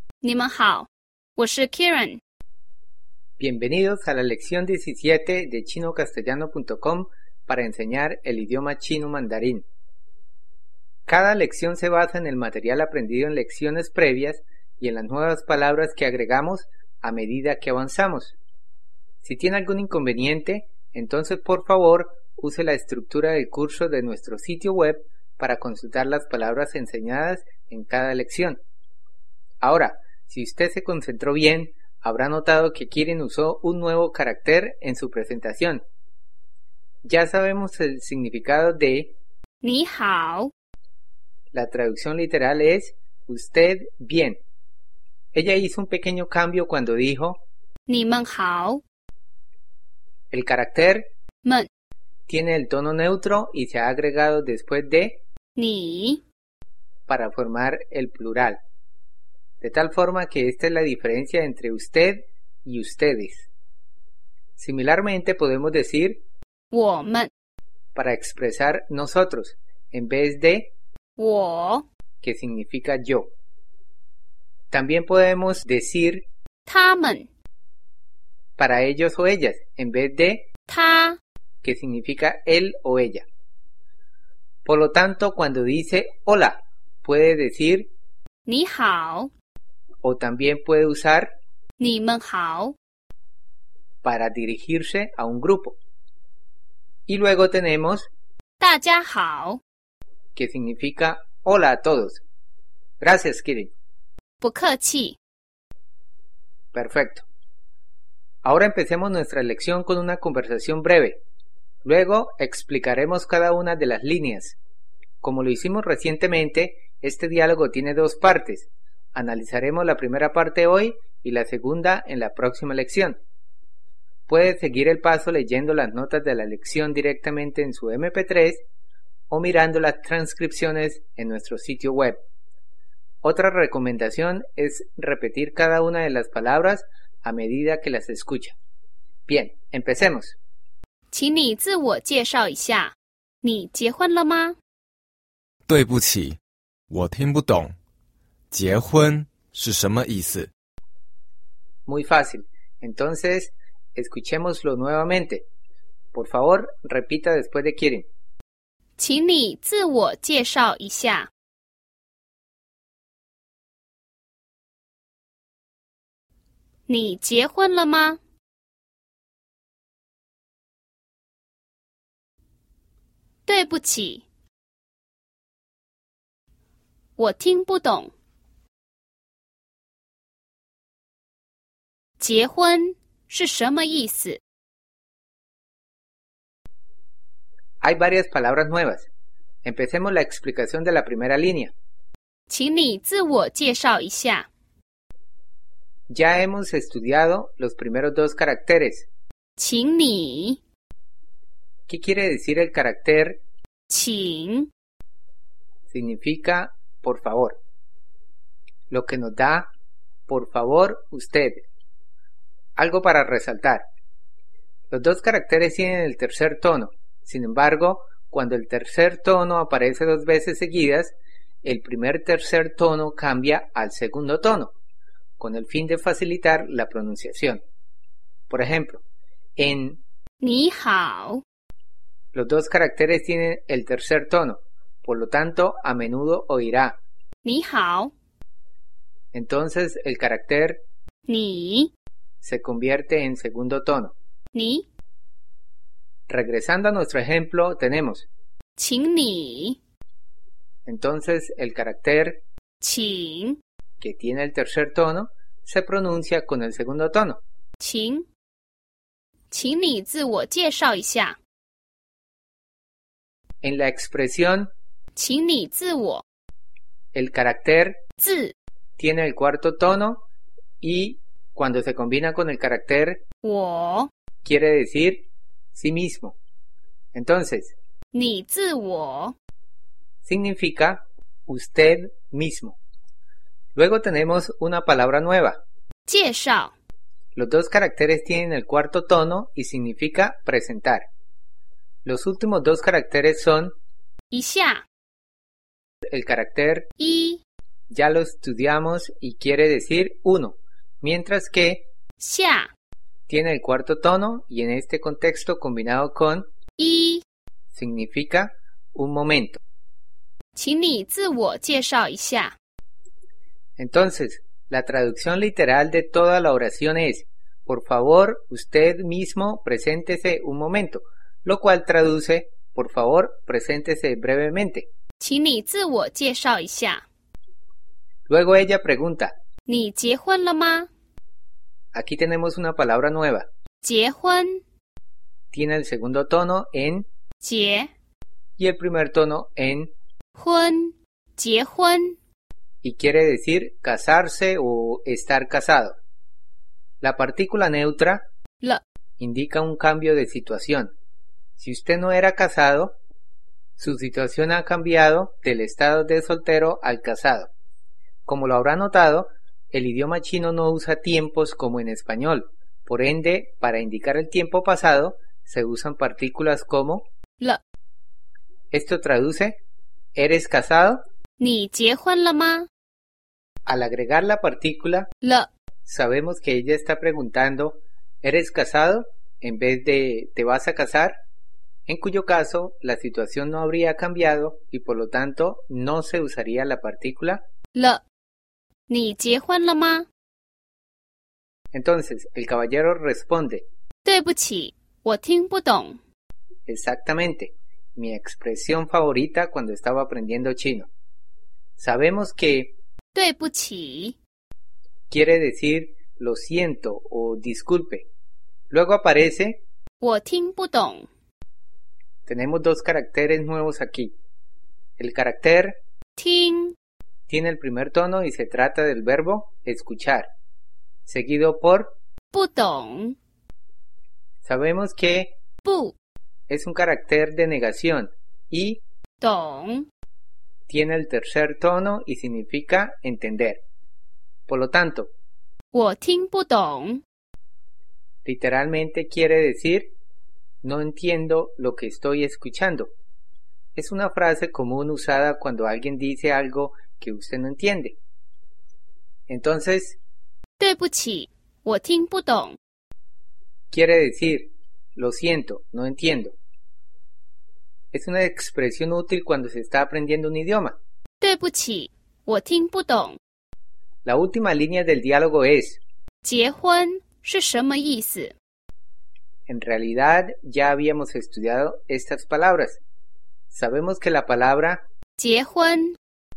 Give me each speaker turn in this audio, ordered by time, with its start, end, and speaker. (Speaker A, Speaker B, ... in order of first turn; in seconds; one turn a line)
Speaker A: 0.2-2.2
Speaker B: 3.4-9.6
Speaker B: 11.1-18.4
Speaker B: 19.2-28.6
Speaker B: 29.6-35.8
Speaker B: 37.0-39.1
Speaker A: 39.6-40.5
Speaker B: 41.5-44.4
Speaker B: 45.3-47.4
Speaker A: 47.9-48.8
Speaker B: 50.3-51.1
Speaker B: 52.3-55.2
Speaker A: 55.6-56.2
Speaker B: 57.1-58.6
Speaker B: 59.6-63.5
Speaker B: 64.6-66.2
Speaker A: 66.7-67.3
Speaker B: 67.9-70.7
Speaker A: 71.2-71.8
Speaker B: 72.2-73.3
Speaker B: 74.7-76.2
Speaker A: 76.7-77.3
Speaker B: 78.6-80.5
Speaker A: 80.7-81.2
Speaker B: 81.6-83.2
Speaker B: 84.6-87.9
Speaker A: 88.5-89.3
Speaker B: 90.0-91.3
Speaker A: 91.8-92.7
Speaker B: 94.0-95.8
Speaker B: 97.1-98.1
Speaker A: 98.6-99.6
Speaker B: 100.3-102.2
Speaker B: 103.0-103.7
Speaker A: 104.4-105.2
Speaker B: 106.7-107.2
Speaker B: 108.4-111.2
Speaker B: 111.8-114.6
Speaker B: 115.2-123.2
Speaker B: 124.3-128.6
Speaker B: 129.3-132.2
Speaker B: 133.2-138.6
Speaker B: 139.2-140.4
Speaker A: 141.1-144.6
Speaker C: 145.7-146.4
Speaker C: 146.9-147.8
Speaker C: 148.5-150.5
Speaker B: 151.8-155.4
Speaker B: 156.1-158.1
Speaker A: 159.0-161.3
Speaker A: 166.9-168.2
Speaker A: 173.5-174.2
Speaker A: 177.2-178.1
Speaker A: 182.2-184.4
Speaker B: 187.8-189.1
Speaker B: 189.6-191.7
Speaker A: 192.5-194.5
Speaker B: 196.1-199.1
Speaker A: 199.6-200.6
Speaker B: 201.9-203.4
Speaker A: 203.9-204.7
Speaker B: 205.9-207.6
Speaker B: 208.9-209.7
Speaker B: 210.3-211.6
Speaker B: 212.8-213.8
Speaker B: 214.9-224.7
Speaker B: 225.4-227.6
Speaker B: 228.5-229.0
Speaker B: 229.6-230.0
Speaker A: 230.4-231.4
Speaker B: 232.3-237.0
Speaker A: 237.4-238.1
Speaker B: 239.3-240.8
Speaker A: 241.3-241.9
Speaker B: 242.4-244.1
Speaker A: 244.5-244.8
Speaker B: 246.3-248.3
Speaker A: 248.8-249.8
Speaker B: 250.8-252.4
Speaker A: 252.8-253.6
Speaker B: 254.0-257.4
Speaker A: 257.8-258.2
Speaker A: 259.5-261.4
Speaker B: 263.6-264.7
Speaker A: 265.1-266.2
Speaker B: 267.1-268.0
Speaker A: 268.2-268.5
Speaker B: 269.0-270.2
Speaker B: 270.8-273.2
Speaker A: 273.4-274.1
Speaker B: 274.4-276.4
Speaker B: 277.1-277.7
Speaker A: 278.1-279.3
Speaker B: 280.2-282.8
Speaker B: 283.7-285.6
Speaker A: 286.1-286.7
Speaker B: 287.3-291.1
Speaker B: 292.0-293.7
Speaker A: 294.3-294.8
Speaker B: 296.1-296.9
Speaker A: 297.0-297.4
Speaker B: 297.9-301.9
Speaker A: 302.2-302.7
Speaker B: 303.3-306.5
Speaker A: 306.8-307.2
Speaker B: 307.7-309.6
Speaker A: 310.5-312.6
Speaker B: 313.8-324.9
Speaker A: 325.2-327.0
Speaker B: 328.3-329.3
Speaker A: 329.7-330.9
Speaker B: 331.9-333.5
Speaker A: 333.8-334.6
Speaker B: 335.5-337.1
Speaker A: 337.4-337.9
Speaker B: 338.6-339.9
Speaker A: 340.4-342.2
Speaker B: 342.8-346.0
Speaker B: 347.0-348.2
Speaker B: 349.2-350.9
Speaker B: 351.6-352.9
Speaker B: 353.8-357.5
Speaker B: 358.2-367.0
Speaker B: 368.7-369.6
Speaker B: 370.1-371.0
Speaker A: 371.4-372.7
Speaker B: 373.6-375.1
Speaker A: 375.2-375.5
Speaker B: 375.9-381.1
Speaker B: 381.9-387.4
Speaker A: 387.7-388.0
Speaker A: 388.9-390.1
Speaker B: 391.7-393.6
Speaker A: 394.0-396.0
Speaker B: 396.6-400.9
Speaker B: 401.8-402.7
Speaker A: 403.1-404.2
Speaker B: 405.1-408.1
Speaker B: 408.7-409.6
Speaker A: 410.0-411.1
Speaker B: 412.2-414.1
Speaker B: 415.0-415.8
Speaker A: 416.2-416.8
Speaker B: 417.3-420.3
Speaker B: 421.1-421.9
Speaker A: 422.3-423.2
Speaker B: 424.4-425.3
Speaker A: 425.6-425.9
Speaker B: 426.5-428.8
Speaker A: 429.2-429.9
Speaker B: 430.7-433.6
Speaker B: 434.5-435.1
Speaker A: 435.7-437.0
Speaker B: 438.2-439.9
Speaker B: 440.6-442.9
Speaker B: 443.7-448.0
Speaker B: 449.3-450.0
Speaker A: 450.6-452.6
Speaker B: 453.7-456.3
Speaker B: 457.9-460.8
Speaker A: 461.2-463.2
Speaker B: 464.0-465.8
Speaker A: 466.2-468.3
Speaker B: 469.5-472.8
Speaker B: 473.5-474.8
Speaker A: 475.2-476.0